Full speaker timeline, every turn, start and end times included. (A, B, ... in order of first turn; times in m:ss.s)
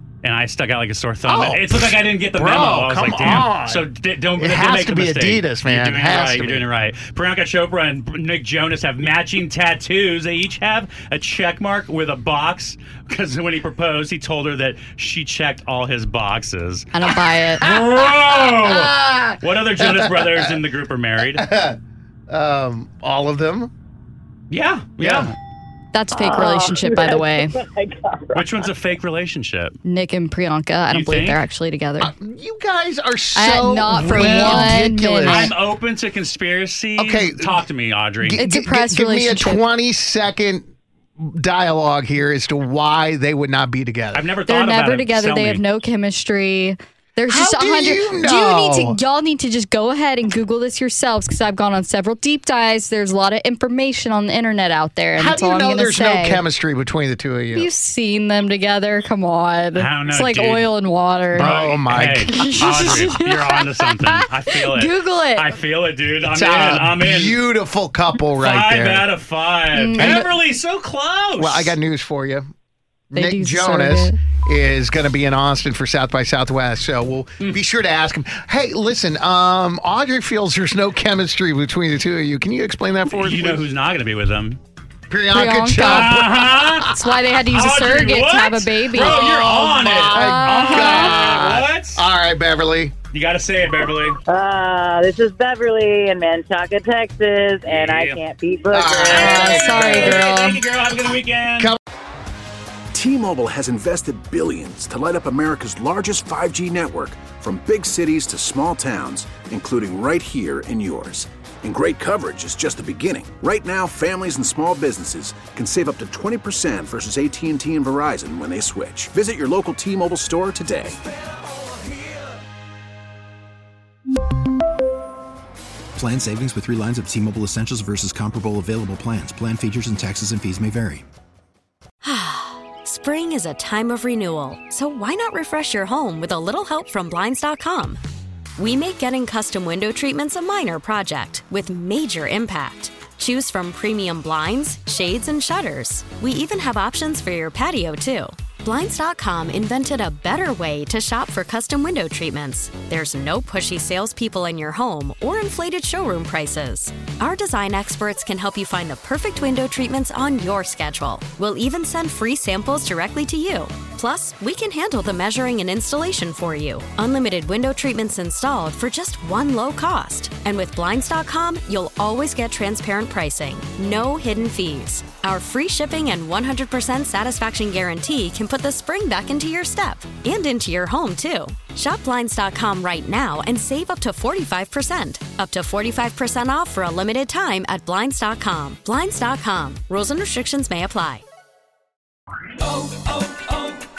0:00.2-0:21.4 A
0:01.3-0:03.8 B
0:04.4-0:06.6 B
0:16.9-0:17.6 C
0:18.1-0:20.6 B
0:21.3-0:21.8 B
0:22.3-0:23.7 B
0:24.5-0:25.3 A
0:25.0-0:25.3 B
0:25.9-0:27.6 C
0:26.1-0:28.5 D
0:28.3-0:29.8 A
0:29.8-0:32.1 C
0:30.9-0:31.4 A
0:32.0-0:35.5 B
0:33.3-0:35.5 C
0:34.1-0:38.4 A
0:37.0-0:37.6 B
0:38.2-0:44.3 B
0:38.4-0:39.6 C
0:44.1-0:45.6 A
0:44.5-0:56.4 C
0:47.3-0:49.0 B
0:55.1-0:57.7 B
0:57.5-1:01.6 C
0:59.8-1:00.7 A
1:01.3-1:03.1 B
1:01.3-1:07.4 A
1:02.3-1:05.5 C
1:06.3-1:09.1 B
1:08.3-1:11.8 A
1:09.7-1:10.2 C
1:10.0-1:10.2 B
1:11.4-1:12.5 B
1:13.1-1:23.6 B
1:13.1-1:14.2 C
1:23.1-1:24.6 A
1:25.1-1:27.2 B
1:25.3-1:26.2 C
1:25.8-1:26.9 A
1:26.9-1:29.2 C
1:27.5-1:32.0 A
1:28.9-1:32.9 B
1:29.8-1:31.2 C
1:33.1-1:34.2 A
1:34.3-1:40.0 D
1:37.6-1:38.2 A
1:38.7-1:40.2 B
1:39.0-1:41.8 A
1:39.1-1:40.6 C
1:42.9-2:01.0 E
2:06.0-2:11.0 F
2:12.0-2:18.0 G
2:18.6-3:11.2 G